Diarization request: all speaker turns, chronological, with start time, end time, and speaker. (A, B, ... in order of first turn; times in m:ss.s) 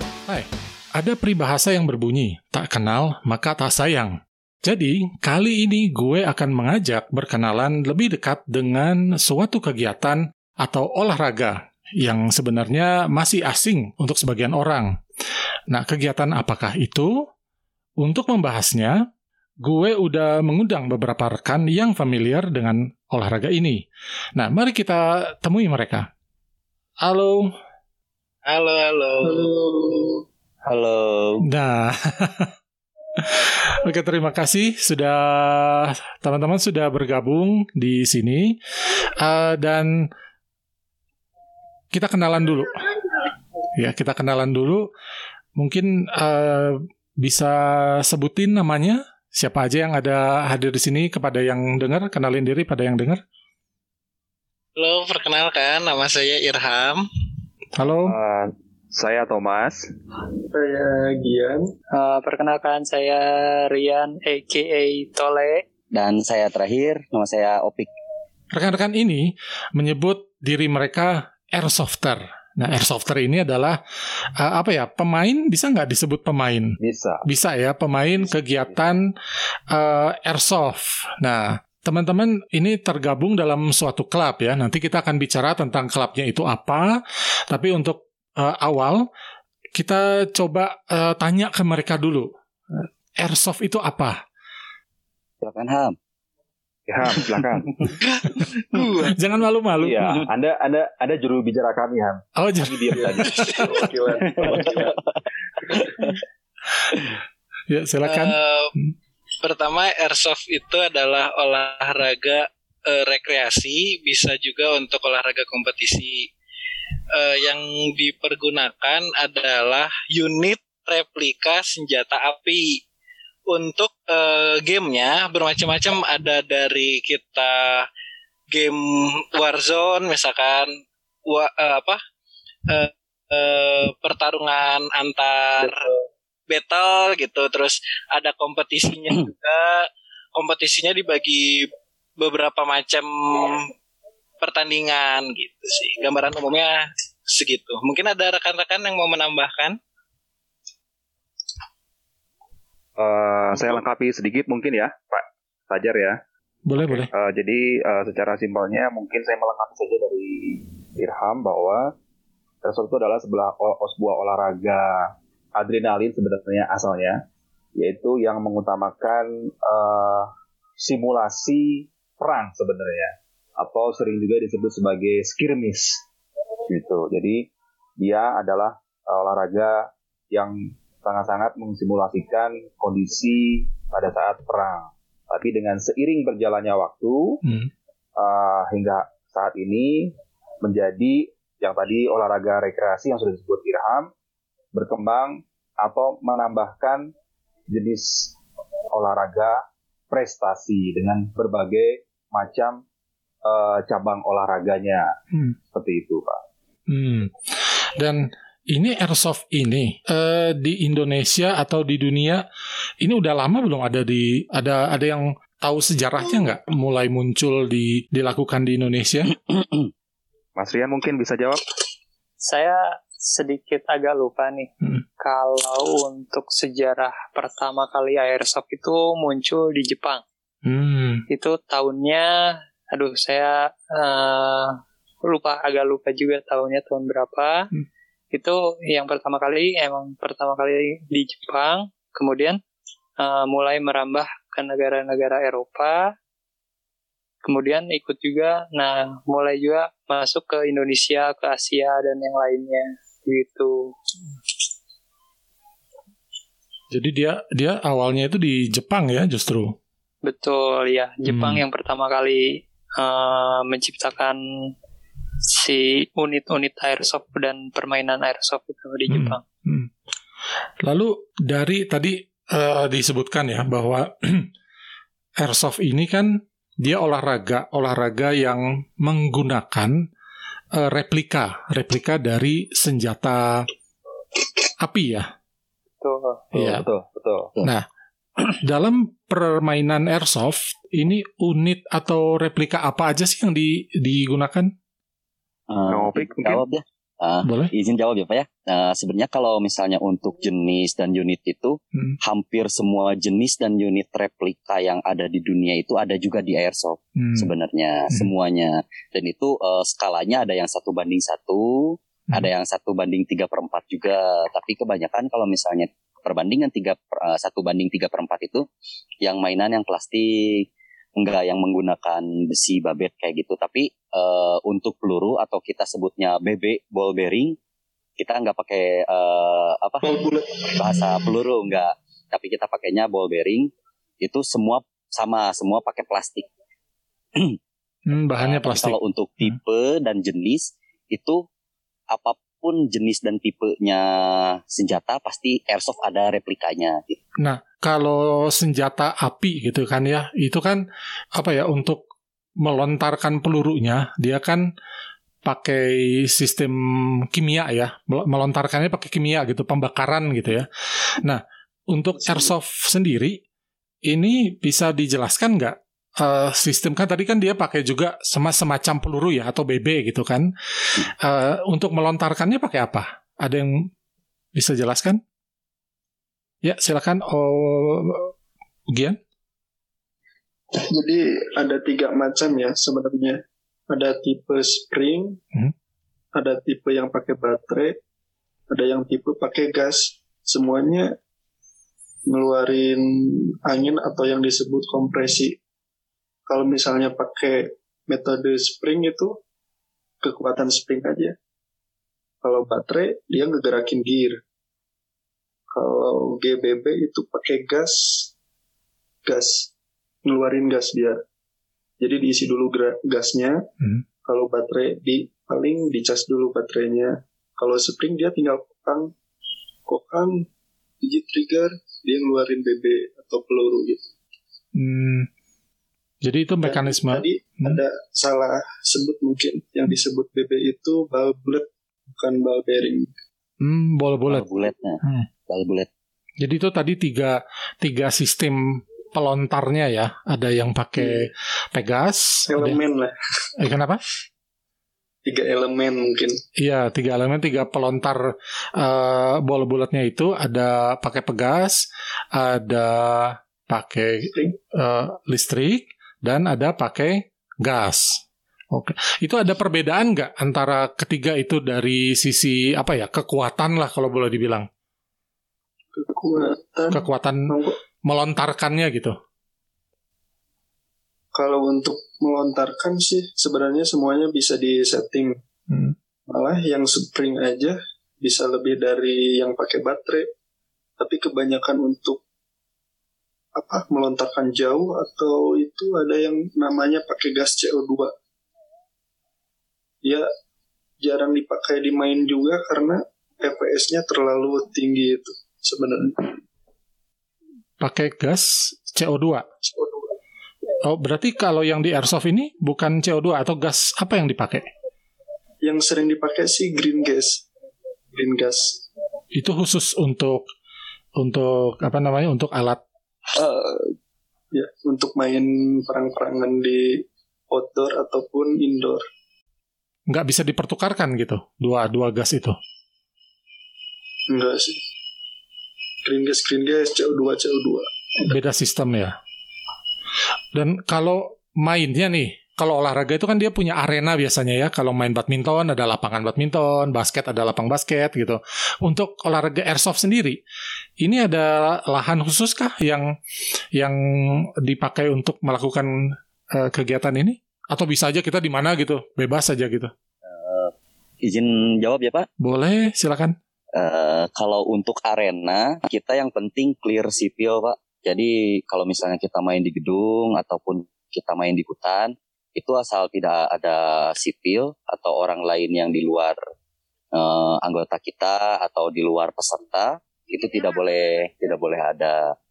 0:00.3-0:14.9 A
0:15.7-0:17.2 A
0:18.0-0:19.0 A
0:19.6-0:23.8 A
0:24.4-0:26.1 A
0:27.0-0:27.5 A
0:28.4-0:29.5 B
0:29.2-0:30.2 C
0:30.6-0:31.4 D
0:31.4-0:32.5 A
0:33.2-0:38.6 A
0:39.2-0:40.1 A
0:41.9-0:43.0 A
0:43.7-0:44.9 A
0:45.6-0:53.2 A
0:54.8-0:57.1 B
0:57.7-0:58.2 A
0:58.1-0:59.9 E
1:00.5-1:01.7 C
1:01.9-1:05.6 F
1:05.9-1:07.9 D
1:08.5-1:13.8 A
1:14.4-1:16.7 A
1:16.8-1:17.2 E
1:17.2-1:19.1 A
1:18.2-1:18.8 E
1:19.7-1:27.0 A
1:27.5-1:29.0 A
1:29.7-1:34.2 A
1:35.4-1:36.0 D
1:36.9-1:37.9 E
1:38.3-1:38.9 B
1:38.7-1:39.1 C
1:39.1-1:40.2 A
1:39.8-1:43.6 E
1:42.4-1:43.7 A
1:43.0-1:45.1 C
1:45.7-1:46.1 C
1:45.7-1:46.1 D
1:47.7-1:48.9 A
1:48.0-1:48.7 B
1:49.4-1:56.3 B
1:57.1-2:02.8 B
2:03.5-2:07.9 B
2:08.5-2:12.0 B
2:12.7-2:15.9 B
2:16.5-2:23.7 B
2:24.4-2:29.8 B
2:33.0-2:36.2 E
2:36.6-2:37.1 A
2:36.8-2:41.9 E
2:42.6-2:47.2 E
2:47.8-2:56.0 E
2:56.7-3:07.4 E
3:07.4-3:07.7 A
3:08.2-3:14.1 E
3:14.7-3:17.1 E
3:17.7-3:18.3 E
3:18.9-3:22.8 E
3:23.4-3:25.1 E
3:25.7-3:26.4 E
3:26.9-3:27.4 A
3:28.0-3:32.4 A
3:33.0-3:39.4 A
3:39.5-3:39.9 D
3:40.6-3:41.6 E
3:42.4-3:44.7 F
3:45.2-3:50.2 F
3:50.6-3:51.2 A
3:51.3-3:52.3 F
3:52.9-3:57.7 F
3:58.3-4:02.6 F
4:03.2-4:06.0 F
4:07.4-4:13.9 F
4:16.9-4:19.8 A
4:20.2-4:24.7 F
4:21.3-4:21.6 A
4:25.4-4:29.4 F
4:29.1-4:29.9 A
4:30.8-4:34.5 A
4:35.4-4:40.0 A
4:40.7-4:43.7 A
4:44.8-4:45.3 A
4:46.0-4:46.4 F
4:46.5-4:46.8 A
4:46.5-4:47.5 E
4:48.4-4:54.7 A
4:55.7-5:18.7 D
4:55.9-4:56.6 E
4:57.4-4:57.7 A
5:07.2-5:07.5 A
5:19.2-5:27.6 D
5:28.2-5:36.5 D
5:30.0-5:31.3 C
5:38.1-5:39.6 A
5:38.4-5:41.4 D
5:42.1-5:47.2 D
5:47.4-5:50.8 A
5:51.3-5:52.0 A
5:52.6-5:54.7 A
5:55.4-6:00.7 A
6:01.2-6:03.4 A
6:02.2-6:02.5 C
6:04.1-6:13.9 A
6:14.5-6:15.2 A
6:16.6-6:18.3 A
6:18.9-6:19.2 A
6:20.7-6:25.4 C
6:26.3-6:28.0 C
6:28.7-6:31.2 C
6:32.3-6:35.6 C
6:36.5-6:39.4 C
6:40.2-6:41.4 C
6:42.4-6:44.4 C
6:45.7-6:48.3 C
6:49.2-6:49.7 C
6:50.2-6:51.2 C
6:52.0-6:53.7 C
6:54.2-6:59.1 C
6:59.9-7:00.5 C
7:01.0-7:04.1 C
7:04.7-7:05.3 A
7:06.2-7:07.8 A
7:06.6-7:13.1 C
7:13.6-7:14.5 A
7:14.3-7:15.9 D
7:15.0-7:15.3 A
7:16.4-7:22.8 A
7:21.0-7:21.2 C
7:22.5-7:23.2 C
7:23.6-7:24.0 A
7:25.2-7:26.4 C
7:26.6-7:38.2 A
7:38.7-7:44.7 A
7:45.9-7:47.8 C
7:46.9-7:49.2 A
7:51.3-7:55.4 C
7:55.7-7:55.9 A
7:56.3-8:00.3 C
8:01.0-8:02.2 C
8:03.6-8:08.1 C
8:10.0-8:10.3 C
8:11.0-8:16.4 C
8:17.8-8:19.4 A
8:19.6-8:20.1 C
8:20.8-8:24.7 A
8:25.6-8:27.4 C
8:28.1-8:28.8 C
8:29.3-8:30.4 A
8:31.2-8:32.8 A
8:33.3-8:33.9 C
8:34.5-8:39.0 C
8:40.1-8:42.6 A
8:44.3-8:44.8 C
8:46.0-8:48.3 C
8:48.2-8:49.1 A
8:50.5-9:00.4 A
9:01.0-9:03.1 A
9:03.8-9:09.9 A
9:10.2-9:12.3 D
9:12.4-9:13.4 A
9:13.7-9:26.4 D
9:27.1-9:32.3 D